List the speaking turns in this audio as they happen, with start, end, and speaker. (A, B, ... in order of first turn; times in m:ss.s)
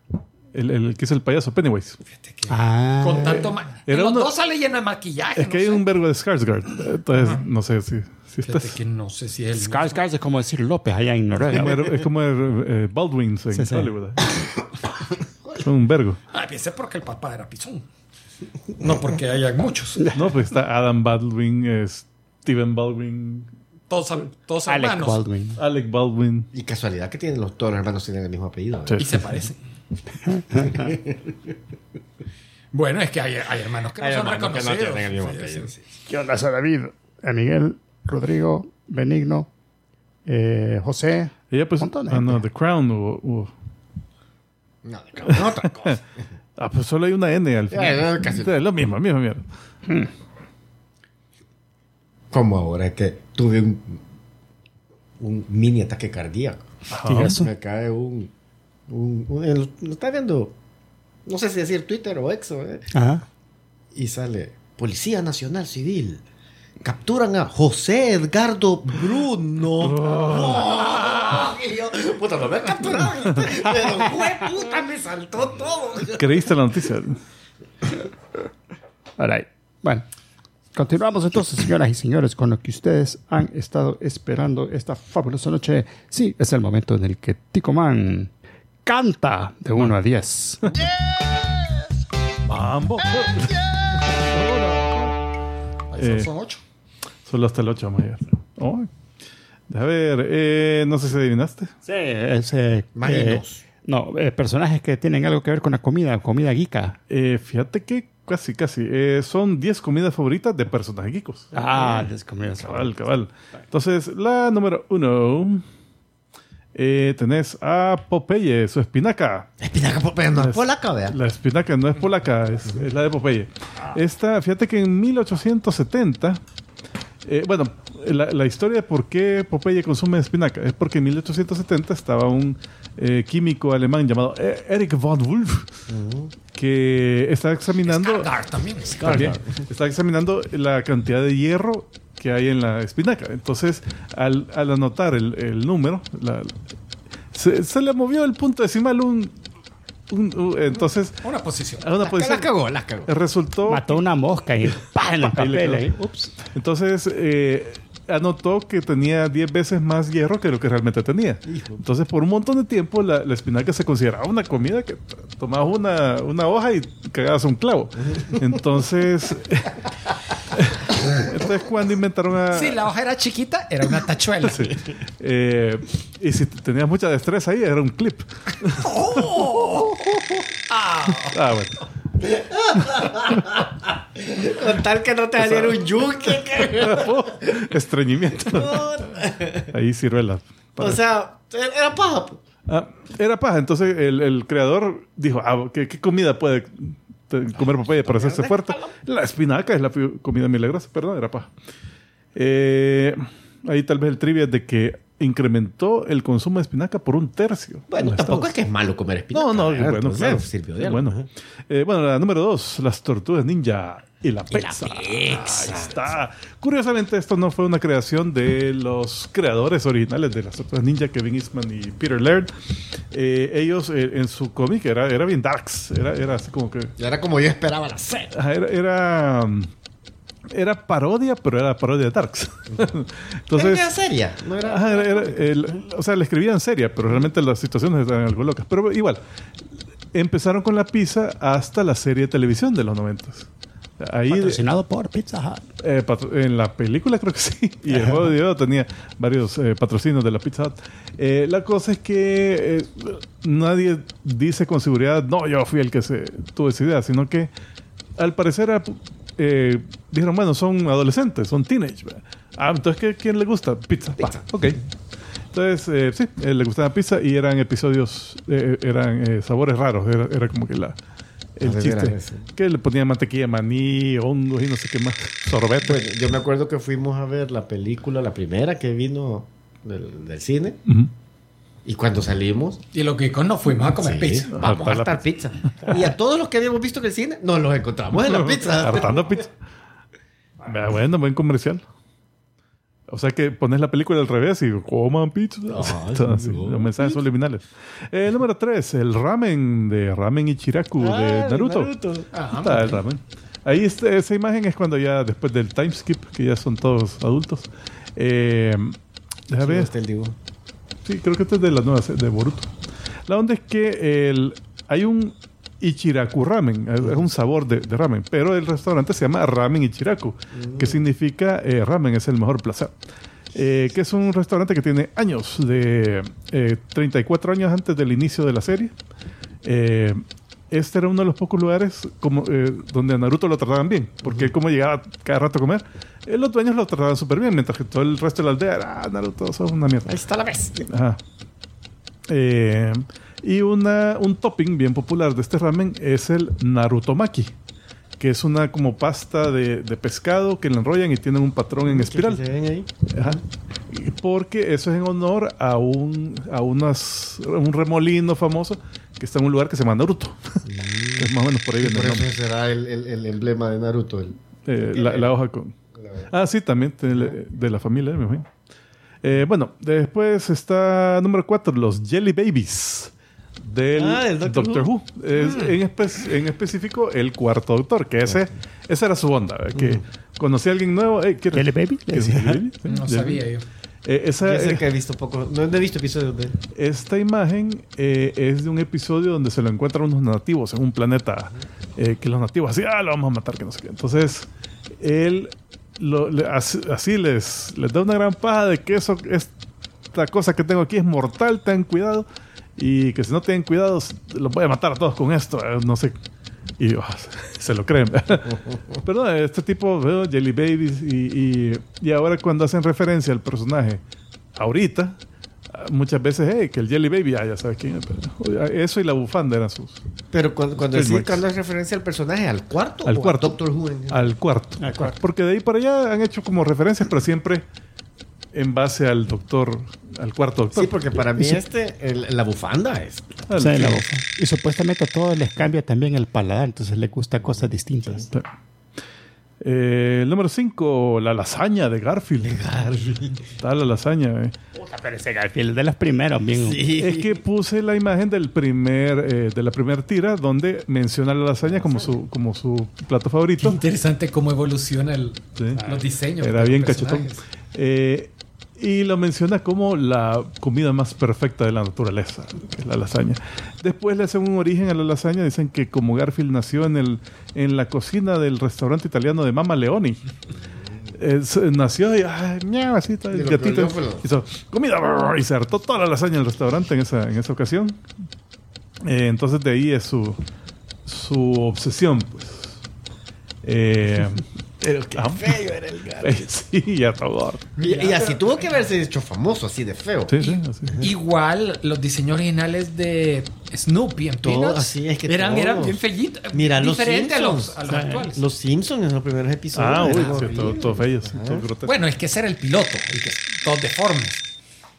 0:00.5-0:02.0 A
0:02.1-0:05.8 B
0:02.5-0:03.5 C
0:03.9-0:04.3 A
0:05.4-0:08.8 A
0:08.5-0:10.0 B
0:09.6-0:11.8 C
0:11.5-0:14.4 A
0:13.5-0:13.9 C
0:15.6-0:16.2 A
0:16.3-0:17.9 B
0:18.8-0:20.1 B
0:20.1-0:23.5 A
0:23.9-0:25.2 B
0:24.7-0:25.6 C
0:25.6-0:26.5 A
0:26.5-0:29.2 D
0:28.9-0:29.3 A
0:29.0-0:29.6 B
0:30.3-0:30.8 C
0:30.5-0:31.3 D
0:32.7-0:35.7 B
0:34.0-0:35.8 D
0:36.1-0:39.5 C
0:40.3-0:42.4 C
0:41.5-0:43.5 A
0:44.8-0:46.0 D
0:45.3-0:46.0 A
0:46.6-0:49.4 A
0:47.7-0:48.6 D
0:52.3-0:54.0 D
0:55.2-0:58.3 D
0:56.9-0:57.4 A
0:57.0-0:57.5 C
0:58.9-1:00.5 D
1:01.3-1:02.9 D
1:02.9-1:03.2 C
1:03.9-1:06.2 D
1:06.8-1:16.5 D
1:09.8-1:10.8 A
1:10.8-1:11.4 B
1:13.2-1:13.6 A
1:16.1-1:17.2 A
1:19.2-1:20.0 C
1:20.7-1:28.3 C
1:28.8-1:31.7 C
1:32.4-1:35.1 A
1:35.9-1:36.6 B
1:36.0-1:36.3 A
1:37.2-1:38.9 A
1:39.7-1:41.7 A
1:41.8-1:47.0 C
1:43.0-1:43.6 D
1:47.1-1:52.1 A
1:51.5-1:53.0 C
1:52.6-1:55.6 A
1:56.8-1:59.5 A
1:59.6-2:01.2 D
2:00.4-2:06.4 A
2:07.2-2:15.7 A
2:15.9-2:16.3 D
2:16.5-2:18.3 A
2:17.8-2:19.3 B
2:18.9-2:19.6 D
2:19.0-2:26.5 A
2:27.3-2:29.4 A
2:30.1-2:31.2 A
2:31.2-2:31.9 B
2:31.8-2:34.0 A
2:32.0-2:33.1 D
2:33.7-2:36.3 C
2:35.1-2:35.9 A
2:36.5-2:49.9 A
2:41.5-2:41.8 D
2:50.4-2:52.8 A
2:52.5-2:54.7 B
2:54.4-3:00.1 A
2:58.8-2:59.9 B
3:00.7-3:01.5 B
3:01.2-3:01.8 A
3:02.2-3:07.3 D
3:02.8-3:03.1 A
3:05.4-3:05.8 A
3:06.7-3:08.9 A
3:08.4-3:09.7 D
3:09.7-3:11.0 A
3:10.8-3:12.4 D
3:12.7-3:21.5 A
3:17.6-3:18.8 D
3:22.4-3:28.5 A
3:27.9-3:31.3 D
3:29.3-3:42.5 A
3:34.5-3:36.0 D
3:43.1-3:46.9 A
3:47.0-3:48.3 D
3:48.3-3:49.7 A
3:50.5-3:53.9 A
3:53.5-3:55.5 D
3:54.6-3:59.2 A
4:00.1-4:03.5 A
4:04.0-4:04.6 A
4:04.3-4:05.6 C
4:05.8-4:17.5 A
4:18.2-4:24.8 A
4:24.2-4:24.4 D
4:25.5-4:31.0 A
4:31.6-4:36.0 A
4:31.6-4:32.5 D
4:35.8-4:40.8 D
4:40.9-4:41.1 A
4:41.8-4:42.8 D
4:42.9-4:44.5 B
4:43.8-4:49.4 D
4:44.5-4:46.1 A
4:48.2-4:49.6 A
4:50.6-4:51.8 A
4:53.1-5:01.9 A
4:55.7-4:57.2 D
5:01.0-5:02.3 D
5:02.3-5:03.0 B
5:02.5-5:09.9 A
5:09.6-5:10.4 D
5:11.0-5:12.7 A
5:13.3-5:23.0 A
5:20.6-5:20.9 D
5:23.5-5:28.9 A
5:29.6-5:40.2 A
5:40.1-5:40.9 D
5:40.9-5:41.2 A
5:42.3-5:47.5 A
5:48.2-5:52.4 A
5:51.9-5:53.4 D
5:53.1-6:02.3 A
6:00.7-6:05.3 D
6:04.7-6:05.8 A
6:05.9-6:06.3 D
6:06.3-6:08.5 A
6:09.2-6:23.4 A
6:13.9-6:14.9 D
6:15.4-6:15.7 D
6:19.8-6:20.0 D
6:21.5-6:22.6 C
6:22.9-6:23.6 B
6:24.0-6:24.8 A
6:24.4-6:26.6 D
6:26.7-6:39.5 A
6:40.1-6:46.2 A
6:46.8-6:54.0 A
6:54.6-6:55.2 A
6:55.7-7:00.0 A
7:00.3-7:04.4 D
7:00.9-7:01.4 A
7:03.0-7:03.6 A
7:04.1-7:07.6 A
7:04.8-7:05.1 C
7:08.5-7:11.1 A
7:10.7-7:13.5 D
7:13.5-7:14.0 A
7:13.6-7:18.3 C
7:19.6-7:22.6 A
7:22.4-7:23.5 D
7:23.6-7:24.5 A
7:24.8-7:26.9 C
7:26.6-7:27.4 D
7:26.9-7:33.8 A
7:31.7-7:32.1 D
7:33.6-7:37.4 B
7:35.6-7:35.8 A
7:35.8-7:36.0 C
7:36.4-7:50.2 A
7:50.7-7:51.1 D
7:51.2-7:58.0 A
7:53.3-7:54.2 D
7:59.0-8:00.4 A
8:01.1-8:02.8 A
8:03.6-8:04.4 A
8:04.8-8:06.5 D
8:05.1-8:05.6 A
8:06.2-8:07.7 A
8:07.8-8:08.5 B
8:07.8-8:11.1 D
8:10.3-8:11.0 A
8:10.4-8:18.4 B
8:14.4-8:16.0 D
8:16.5-8:17.8 D
8:17.9-8:18.3 C
8:18.3-8:21.7 D
8:19.8-8:21.9 A
8:21.8-8:24.4 B